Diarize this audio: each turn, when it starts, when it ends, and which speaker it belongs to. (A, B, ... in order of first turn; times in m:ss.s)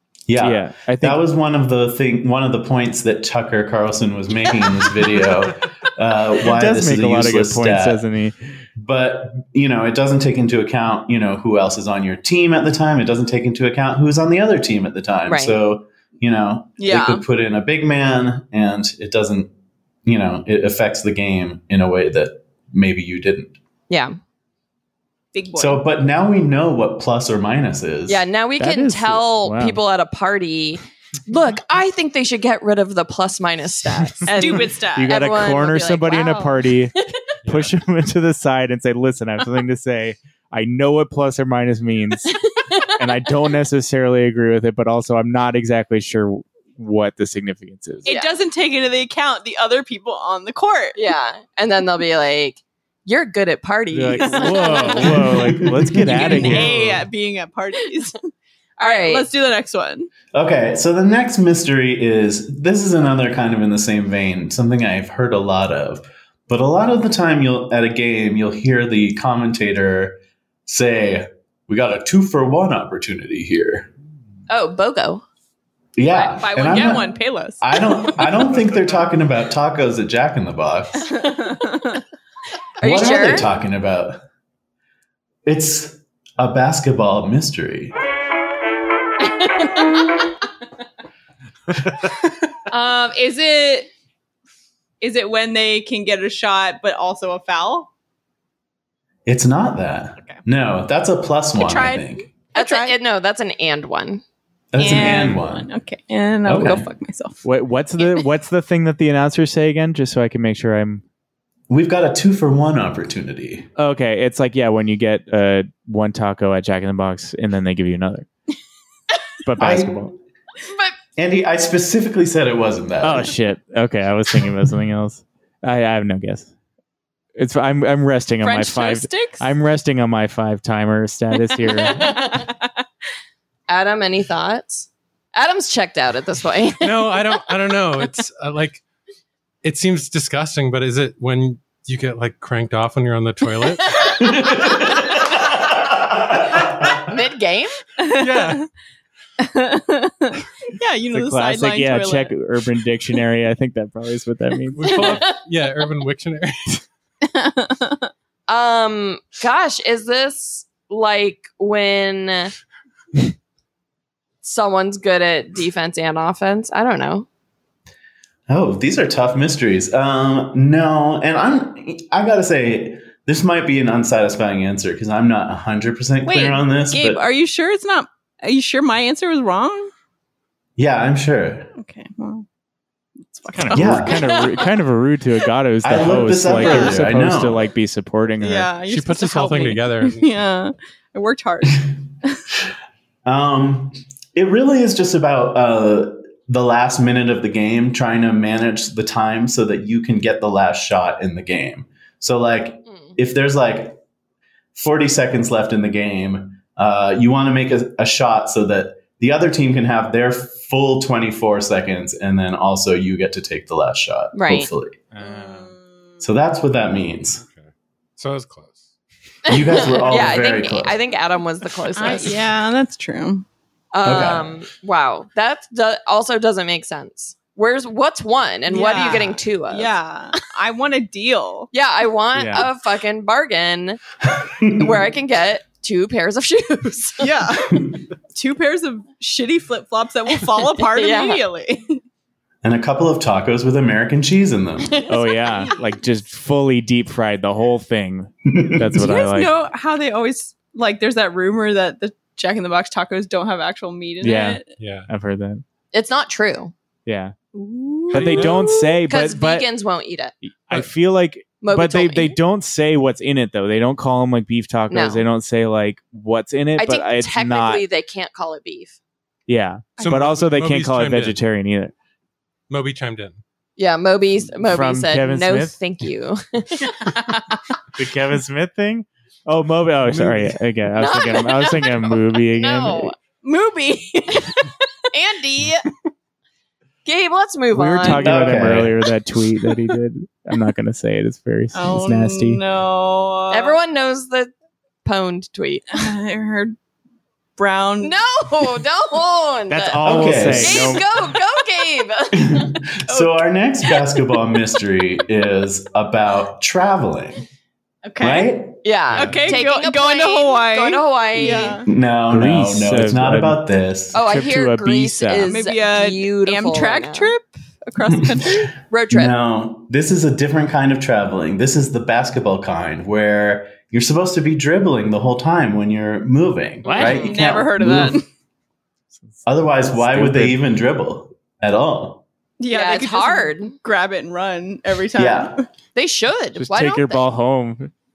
0:00.3-0:08.0 A
0:00.4-0:01.2 B
0:06.5-0:08.4 B
0:08.8-0:19.5 A
0:15.3-0:15.6 C
0:16.8-0:17.2 D
0:20.0-0:23.6 A
0:23.9-0:24.2 C
0:25.3-0:25.8 D
0:25.6-0:28.2 A
0:28.1-0:36.6 C
0:28.6-0:29.8 B
0:34.3-0:35.1 D
0:35.0-0:36.9 B
0:37.4-0:37.7 E
0:37.4-0:42.3 B
0:42.9-0:48.1 B
0:48.0-0:51.0 D
0:48.1-0:48.3 C
0:51.0-0:55.1 C
0:53.9-0:56.8 B
0:54.4-0:54.9 D
0:55.0-0:57.0 A
0:56.1-0:58.2 D
0:58.8-0:59.3 C
0:58.8-1:00.1 D
1:00.3-1:13.9 A
1:14.5-1:15.2 C
1:16.0-1:21.1 A
1:16.1-1:17.0 C
1:16.3-1:18.3 D
1:21.1-1:22.0 D
1:22.8-1:23.5 C
1:22.8-1:24.2 A
1:25.5-1:28.0 A
1:29.4-1:30.0 C
1:32.7-1:33.9 D
1:35.0-1:37.9 D
1:39.3-1:42.3 A
1:41.6-1:43.0 D
1:42.6-1:44.2 C
1:44.7-1:45.7 A
1:44.8-1:47.4 D
1:45.0-1:45.4 B
1:46.4-1:46.9 A
1:47.4-1:51.0 B
1:51.7-1:53.7 A
1:53.8-1:58.3 B
1:59.4-2:00.1 B
1:59.6-2:00.1 A
2:00.7-2:01.0 C
2:01.2-2:03.4 A
2:03.0-2:06.5 B
2:07.4-2:12.2 B
2:08.4-2:09.4 D
2:11.8-2:12.7 D
2:12.0-2:12.4 C
2:13.7-2:17.3 C
2:16.8-2:18.8 E
2:19.6-2:24.1 E
2:24.2-2:25.0 A
2:27.0-2:27.8 C
2:28.0-2:28.7 D
2:28.1-2:28.6 E
2:29.4-2:32.3 D
2:31.1-2:35.2 B
2:34.8-2:36.8 E
2:37.2-2:38.1 D
2:38.5-2:42.5 C
2:44.4-2:47.3 C
2:48.5-2:57.2 A
2:56.2-2:59.9 D
3:00.8-3:01.7 A
3:01.8-3:02.5 D
3:03.2-3:04.6 D
3:03.5-3:08.7 B
3:03.7-3:04.2 A
3:05.8-3:07.7 A
3:06.5-3:07.1 D
3:08.4-3:12.4 D
3:08.9-3:10.4 E
3:13.2-3:24.0 A
3:22.9-3:23.2 C
3:24.8-3:35.0 A
3:34.3-3:34.7 C
3:35.2-3:36.2 D
3:35.2-3:35.7 B
3:36.2-3:37.4 A
3:37.4-3:38.9 E
3:39.5-3:41.0 A
3:39.5-3:42.4 C
3:42.0-3:43.4 D
3:43.9-3:50.0 C
3:44.0-3:44.6 A
3:48.7-3:51.7 D
3:51.7-3:54.0 C
3:52.4-3:52.7 B
3:54.4-3:54.9 A
3:54.8-3:57.4 C
3:57.2-4:02.0 D
4:00.6-4:01.4 C
4:02.6-4:05.0 A
4:05.1-4:09.6 B
4:08.5-4:09.2 A
4:09.0-4:14.6 D
4:14.2-4:15.6 B
4:14.8-4:15.1 E
4:15.9-4:16.7 C
4:17.1-4:17.4 B
4:17.6-4:20.3 C
4:18.1-4:19.7 B
4:18.1-4:18.6 E
4:20.5-4:27.8 B
4:21.6-4:22.4 C
4:24.9-4:25.2 C
4:26.8-4:29.0 C
4:29.5-4:31.9 B
4:30.0-4:31.4 E
4:32.7-4:33.4 E
4:33.8-4:37.1 C
4:34.6-4:35.8 B
4:37.0-4:37.4 D
4:38.0-4:43.1 B
4:40.1-4:40.6 E
4:41.0-4:43.1 C
4:43.4-4:45.9 D
4:47.0-4:48.3 C
4:47.7-4:52.6 B
4:48.1-4:49.0 A
4:51.7-4:53.8 D
4:53.5-4:54.5 C
4:55.0-4:56.1 C
4:55.9-4:56.8 D
4:57.6-4:58.2 D
4:58.0-5:02.8 C
4:59.7-5:01.1 B
5:00.0-5:01.0 A
5:02.3-5:07.4 A
5:03.1-5:03.4 D
5:08.0-5:08.5 D
5:08.2-5:08.8 A
5:08.8-5:11.8 C
5:09.1-5:11.9 D
5:11.9-5:14.2 A
5:12.3-5:15.6 B
5:14.1-5:17.3 C
5:15.4-5:18.7 D
5:18.1-5:28.2 A
5:18.9-5:19.4 C
5:26.9-5:28.2 D
5:26.9-5:27.4 C
5:29.3-5:30.6 B
5:29.5-5:32.2 A
5:32.6-5:35.6 D
5:32.7-5:33.8 C
5:35.2-5:35.6 A
5:36.0-5:37.2 C
5:36.6-5:37.9 B